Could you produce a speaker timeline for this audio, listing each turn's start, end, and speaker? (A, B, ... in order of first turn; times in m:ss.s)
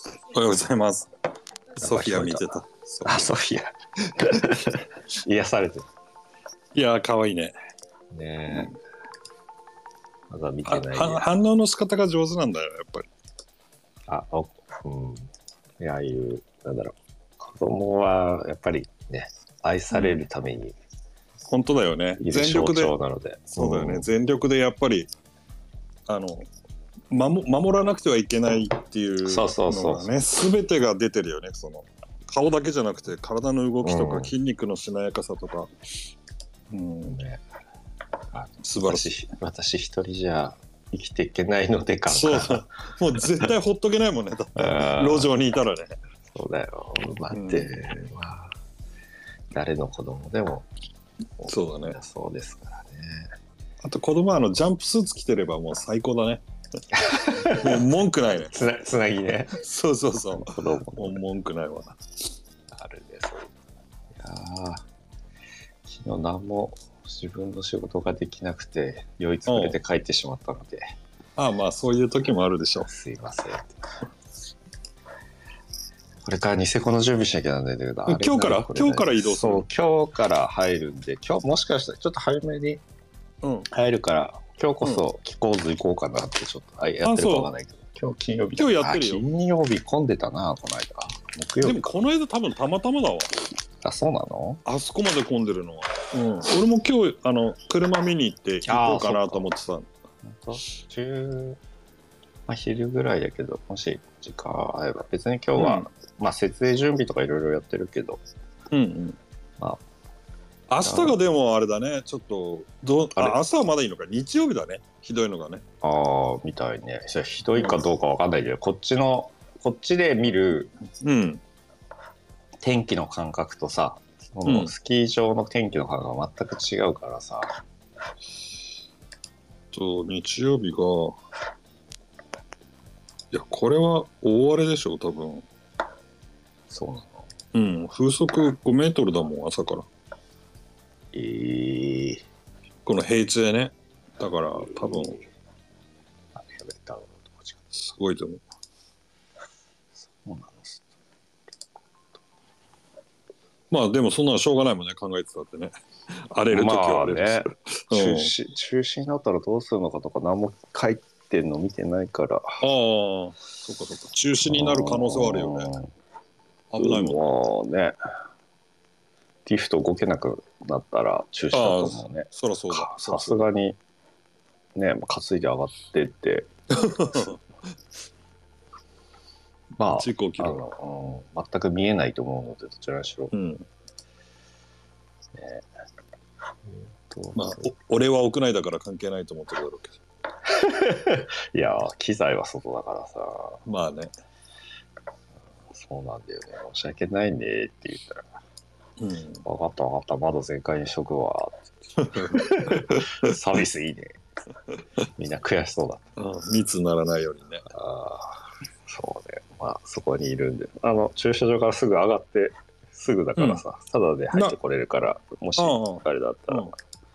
0:00.3-0:01.1 A
0:01.8-0:03.3 A
0:01.8-0:02.5 B
0:03.0-0:05.9 B
0:06.7-0:07.5 A
0:08.1-0:08.8 B
0:10.3-0:11.2 B
0:10.6-0:13.1 A
0:14.1-0:20.8 B
0:19.9-0:20.2 A
0:21.5-0:22.9 A
0:22.2-0:24.1 B
0:23.5-0:25.1 A
0:26.1-0:26.4 A
0:27.1-0:35.7 A
0:29.3-0:30.1 B
0:33.8-0:34.3 B
0:36.7-0:37.2 A
0:37.1-0:37.4 B
0:38.3-0:42.6 B
0:38.6-0:39.2 A
0:42.1-0:46.0 A
0:44.6-0:45.3 B
0:46.3-0:48.5 B
0:47.3-0:47.7 A
0:49.5-0:50.7 B
0:51.4-0:53.3 B
0:51.4-0:52.0 A
0:53.8-0:56.4 A
0:56.9-0:57.8 B
0:57.2-0:58.6 A
0:58.5-0:59.6 B
0:59.5-1:02.0 A
1:00.3-1:01.2 B
1:02.7-1:03.5 B
1:04.2-1:04.8 B
1:05.8-1:10.9 B
1:09.5-1:09.8 A
1:11.4-1:12.9 A
1:12.9-1:13.8 B
1:16.2-1:22.8 B
1:18.1-1:19.6 A
1:23.4-1:23.7 A
1:23.7-1:31.9 B
1:27.0-1:27.5 A
1:28.6-1:29.2 A
1:31.6-1:33.3 A
1:33.8-1:34.6 B
1:34.6-1:39.9 A
1:38.6-1:39.5 B
1:40.2-1:41.6 B
1:42.5-1:48.2 B
1:45.6-1:45.9 A
1:48.7-1:49.2 A
1:50.7-1:55.6 A
1:50.8-1:51.2 B
1:55.8-2:00.7 B
2:01.0-2:01.4 A
2:02.6-2:07.5 B
2:04.4-2:04.7 A
2:09.7-2:11.2 A
2:13.3-2:15.4 A
2:16.7-2:17.3 B
2:17.5-2:19.8 A
2:21.1-2:22.2 B
2:22.8-2:25.2 A
2:26.4-2:27.6 B
2:27.7-2:28.4 A
2:30.0-2:30.9 B
2:33.7-2:38.3 A
2:36.5-2:42.6 B
2:42.6-2:45.7 A
2:44.4-2:45.9 B
2:46.7-2:47.2 A
2:46.8-2:48.0 B
2:49.4-2:53.8 B
2:51.5-2:53.4 A
2:54.7-2:56.5 B
2:56.7-2:57.4 A
2:59.8-3:03.3 B
2:59.8-3:00.6 A
3:03.3-3:03.7 A
3:05.3-3:05.6 B
3:06.7-3:07.6 B
3:07.3-3:10.0 A
3:10.4-3:13.6 B
3:13.6-3:14.1 A
3:15.7-3:18.2 B
3:19.0-3:19.4 A
3:19.4-3:24.2 B
3:22.0-3:23.3 A
3:25.2-3:26.0 B
3:26.2-3:27.7 A
3:27.7-3:36.7 B
3:33.4-3:33.6 A
3:35.6-3:36.7 A